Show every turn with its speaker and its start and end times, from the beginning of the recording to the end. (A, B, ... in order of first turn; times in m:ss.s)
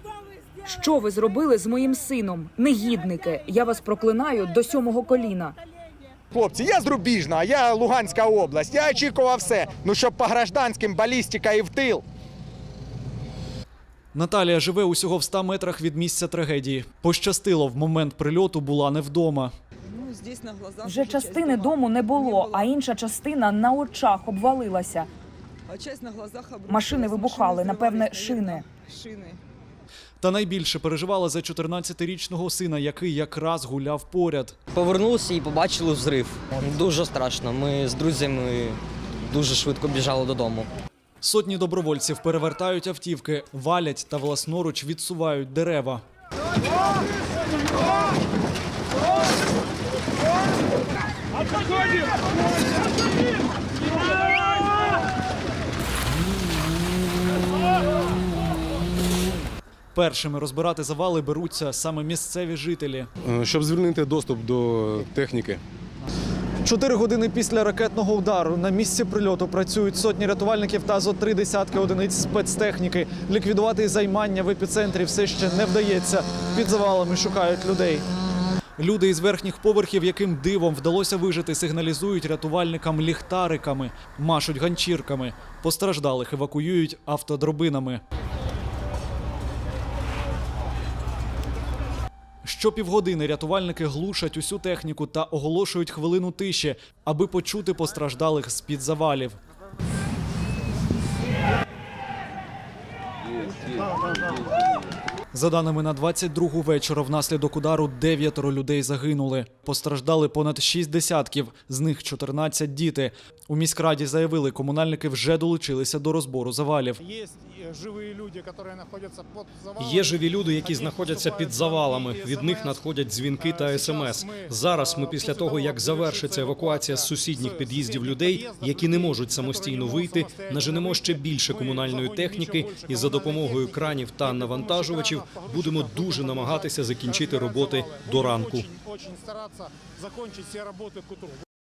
0:00.6-0:05.6 A
0:06.3-0:12.0 B
0:14.1-0:19.5 C
0:19.9-0:25.1 A
0:25.7-0:29.4 A
0:30.2-0:34.6 C
0:34.7-0:40.7 D
0:41.2-0:46.0 C
0:59.9-1:03.1 C
1:03.2-1:05.6 E
1:06.6-1:18.0 C
1:18.8-1:28.0 C
1:32.4-1:39.4 C
1:45.3-1:57.0 C
1:57.0-2:02.8 F
1:59.8-2:18.6 G
2:03.4-2:21.3 F